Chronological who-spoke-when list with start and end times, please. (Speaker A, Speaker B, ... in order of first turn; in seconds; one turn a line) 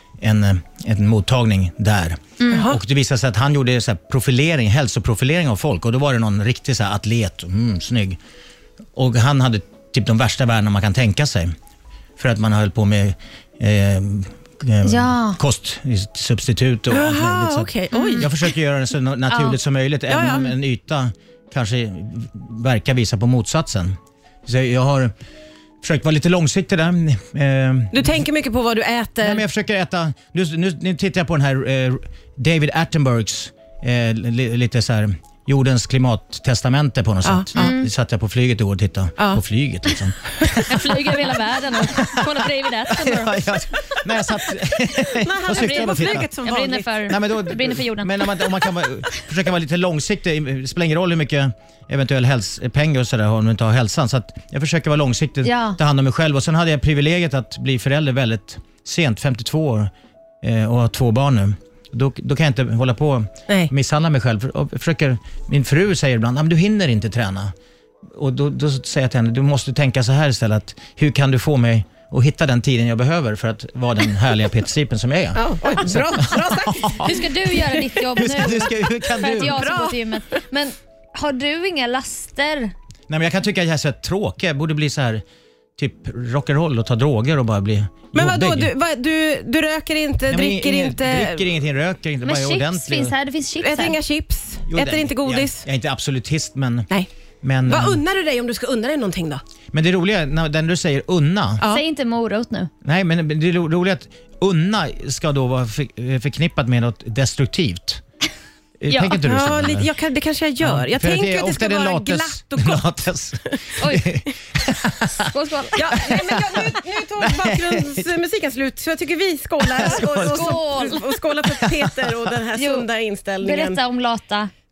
Speaker A: 0.2-8.2
Speaker B: 2.4-2.7
Speaker C: 2.5-2.8
Speaker A: 8.9-11.6
Speaker A: 12.2-25.1
Speaker B: 14.8-15.4
Speaker C: 16.9-18.4
Speaker B: 17.9-18.3
Speaker B: 19.3-19.6
Speaker C: 20.1-20.5
Speaker A: 25.8-28.2
Speaker C: 27.9-29.4
Speaker A: 29.2-41.0
Speaker C: 37.2-37.7
Speaker B: 37.6-37.9
Speaker B: 40.6-43.9
Speaker A: 41.8-46.3
Speaker C: 45.1-47.1
Speaker B: 45.5-48.5
Speaker A: 47.1-67.5
Speaker B: 55.4-55.8
Speaker A: 68.1-77.2
Speaker C: 75.3-77.7
Speaker B: 76.9-82.7
Speaker A: 78.0-79.7
Speaker C: 79.4-80.4
Speaker A: 83.1-85.2
Speaker A: 85.8-88.7
Speaker C: 88.1-91.5
Speaker A: 90.3-93.2
Speaker B: 92.2-94.0
Speaker C: 93.6-95.6
Speaker A: 94.7-96.9
Speaker A: 97.4-98.0
Speaker C: 97.7-99.4
Speaker A: 99.7-101.6
Speaker B: 101.7-102.7
Speaker A: 102.8-108.0
Speaker A: 108.8-109.9
Speaker B: 108.9-109.2
Speaker C: 109.2-112.9
Speaker A: 110.6-115.3
Speaker B: 113.8-114.1
Speaker B: 115.2-116.2
Speaker C: 115.8-123.8
Speaker A: 115.9-118.1
Speaker A: 119.6-120.6
Speaker B: 119.9-121.1
Speaker A: 121.5-122.2
Speaker B: 122.6-122.9
Speaker B: 123.4-124.5